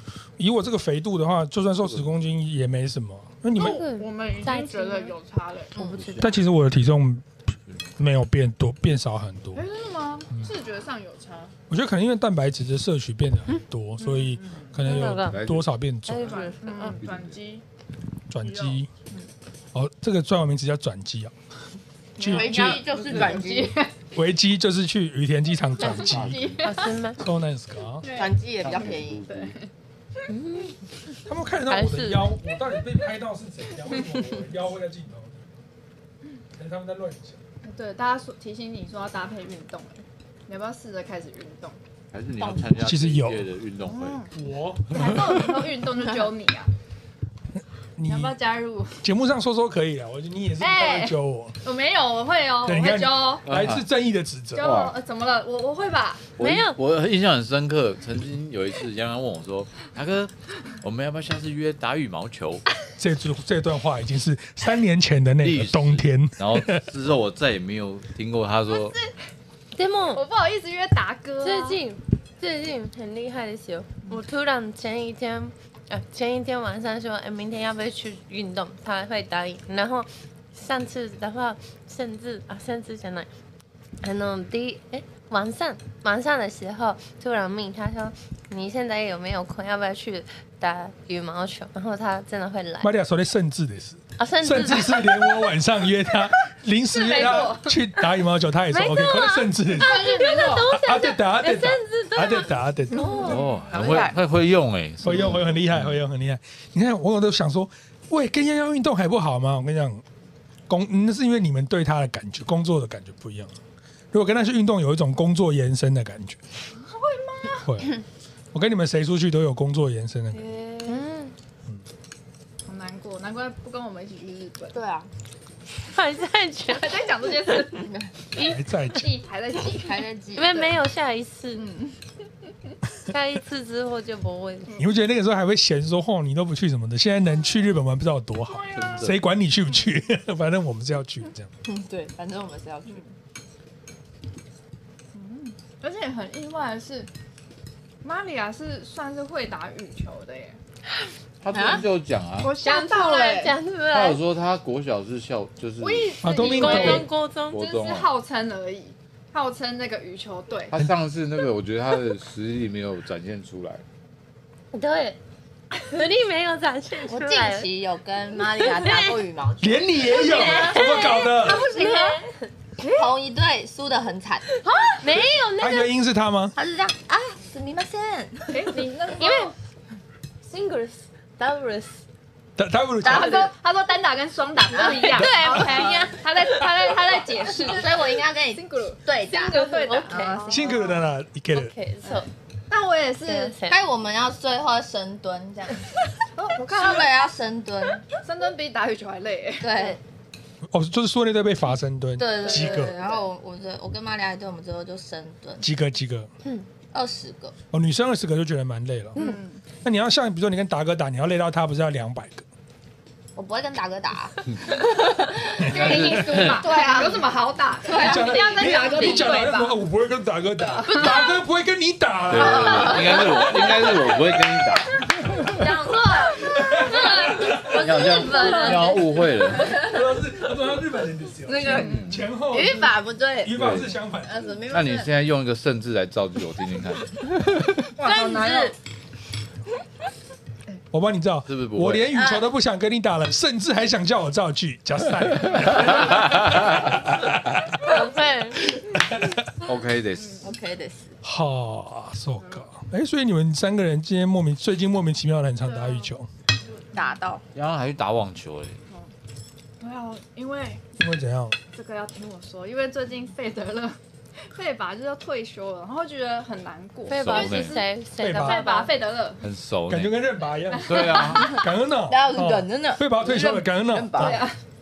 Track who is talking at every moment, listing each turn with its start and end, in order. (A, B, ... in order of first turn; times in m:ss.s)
0:00.4-0:03.8 A
0:01.8-0:02.1 B
0:03.6-0:05.1 C
0:03.6-0:05.8 D
0:05.8-0:06.4 C
0:05.8-0:06.4 B
0:06.2-0:07.3 A
0:08.0-0:09.6 A
0:09.6-0:11.6 D
0:11.7-0:16.4 A
0:14.0-0:14.8 D
0:14.8-0:15.5 C
0:15.2-0:15.8 B
0:16.0-0:17.0 C
0:16.2-0:17.6 D
0:16.9-0:17.4 B
0:18.3-0:18.9 A
0:18.4-0:19.3 D
0:19.7-0:21.3 A
0:22.2-0:23.9 D
0:22.2-0:22.8 A
0:22.2-0:23.8 E
0:24.1-0:26.6 A
0:25.8-0:26.6 B
0:25.8-0:27.0 D
0:26.6-0:27.2 C
0:27.2-0:28.1 A
0:28.0-0:29.7 D
0:28.1-0:29.3 E
0:28.6-0:29.5 B
0:30.3-0:30.8 C
0:31.2-0:35.5 A
0:31.7-0:32.4 C
0:36.5-0:37.4 A
0:37.6-0:41.8 D
0:42.1-0:44.3 B
0:42.4-0:42.7 E
0:42.7-0:43.4 A
0:43.8-0:44.3 D
0:44.3-0:45.6 A
0:44.9-0:46.7 D
0:47.6-0:48.4 A
0:48.0-0:49.0 D
0:49.0-0:51.6 A
0:50.6-0:53.4 D
0:52.6-0:54.8 A
0:53.4-0:53.9 B
0:54.6-0:56.3 D
0:54.6-0:55.0 B
0:56.4-1:02.6 B
0:56.4-0:56.8 C
1:03.0-1:06.8 A
1:05.4-1:09.0 B
1:08.7-1:09.1 D
1:09.8-1:10.2 C
1:10.1-1:11.8 D
1:11.4-1:23.3 C
1:24.0-1:32.9 C
1:32.8-1:40.0 A
1:34.2-1:35.4 C
1:36.9-1:37.8 D
1:38.7-1:43.4 C
1:39.8-1:40.7 D
1:40.6-1:43.3 A
1:43.0-1:44.1 E
1:43.2-1:46.0 B
1:45.0-1:50.0 A
1:50.7-1:53.6 A
1:54.1-1:56.4 A
1:56.8-1:57.7 D
1:57.6-1:57.9 A
1:58.5-2:00.5 A
2:00.3-2:01.1 D
2:00.9-2:01.2 E
2:02.7-2:04.8 D
2:04.7-2:05.1 E
2:05.8-2:07.0 C
2:06.7-2:07.9 D
2:07.8-2:08.1 E
2:08.3-2:08.6 C
2:08.4-2:09.1 A
2:08.9-2:10.7 D
2:09.7-2:10.6 E
2:10.4-2:11.7 C
2:11.6-2:12.0 D
2:13.1-2:14.8 C
2:14.8-2:21.5 A
2:18.7-2:19.2 B
2:21.6-2:23.0 E
2:25.1-2:27.1 D
2:28.0-2:30.6 D
2:31.4-2:32.6 B
2:31.5-2:31.8 E
2:32.4-2:33.6 D
2:32.6-2:34.2 C
2:33.9-2:36.8 B
2:35.8-2:40.7 D
2:36.2-2:37.1 A
2:36.4-2:37.6 C
2:37.5-2:38.1 B
2:40.7-2:43.8 B
2:44.7-2:45.2 C
2:45.8-2:47.7 C
2:47.1-2:52.1 E
2:48.6-2:49.1 C
2:49.6-2:51.6 A
2:50.1-2:52.5 C
2:52.8-2:53.1 D
2:52.9-2:54.5 E
2:54.6-2:55.1 D
2:55.0-2:55.9 C
2:55.6-2:56.6 A
2:56.6-2:58.7 E
2:58.5-2:59.5 D
2:59.1-2:59.5 C
3:00.5-3:02.0 C
3:02.6-3:03.5 A
3:03.0-3:11.0 D
3:04.8-3:06.7 C
3:04.9-3:06.1 E
3:07.6-3:10.7 E
3:09.5-3:10.6 C
3:10.5-3:11.7 A
3:11.5-3:12.3 C
3:12.0-3:13.6 D
3:13.2-3:13.8 C
3:13.6-3:15.9 E
3:16.4-3:17.2 D
3:16.7-3:18.1 E
3:18.1-3:20.0 D
3:19.6-3:20.0 E
3:20.7-3:23.0 A
3:22.2-3:25.6 E
3:22.5-3:23.2 D
3:25.6-3:26.3 A
3:26.9-3:27.5 E
3:27.7-3:29.2 A
3:29.2-3:29.6 D
3:29.8-3:32.4 A
3:33.4-3:37.3 E
3:35.6-3:39.9 D
3:35.6-3:36.5 A
3:35.7-3:36.6 B
3:37.8-3:39.3 E
3:38.0-3:43.5 A
3:40.6-3:41.4 D
3:42.3-3:45.0 B
3:42.3-3:44.0 E
3:45.4-3:50.2 E
3:46.2-3:46.5 D
3:46.5-3:47.9 A
3:46.9-3:47.3 C
3:47.7-3:49.8 B
3:48.0-3:49.0 C
3:48.3-3:48.8 D
3:49.7-3:54.6 A
3:51.4-3:53.6 E
3:51.6-3:52.2 D
3:51.8-3:52.2 B
3:53.5-3:54.0 B
3:54.2-3:55.1 E
3:54.7-3:57.8 B
3:57.8-3:58.8 E
3:58.0-3:58.7 C
4:00.9-4:08.0 A
4:01.5-4:02.1 B
4:02.1-4:02.5 E
4:05.8-4:06.9 B
4:07.8-4:08.8 C
4:08.6-4:09.5 A
4:09.6-4:10.5 B
4:10.2-4:10.4 D
4:10.4-4:11.2 E
4:11.2-4:16.3 A
4:12.4-4:12.7 D
4:15.6-4:16.1 D
4:16.6-4:17.2 D
4:16.9-4:17.4 E
4:17.5-4:18.8 B
4:19.8-4:20.8 D
4:21.0-4:21.6 A
4:21.7-4:24.0 D
4:24.5-4:29.4 D
4:27.1-4:28.9 C
4:27.1-4:27.8 B
4:28.2-4:28.6 A
4:29.4-4:30.2 B
4:29.9-4:34.4 A
4:30.7-4:31.6 D
4:30.8-4:31.5 B
4:31.4-4:34.4 E
4:33.3-4:34.2 B
4:34.1-4:34.6 D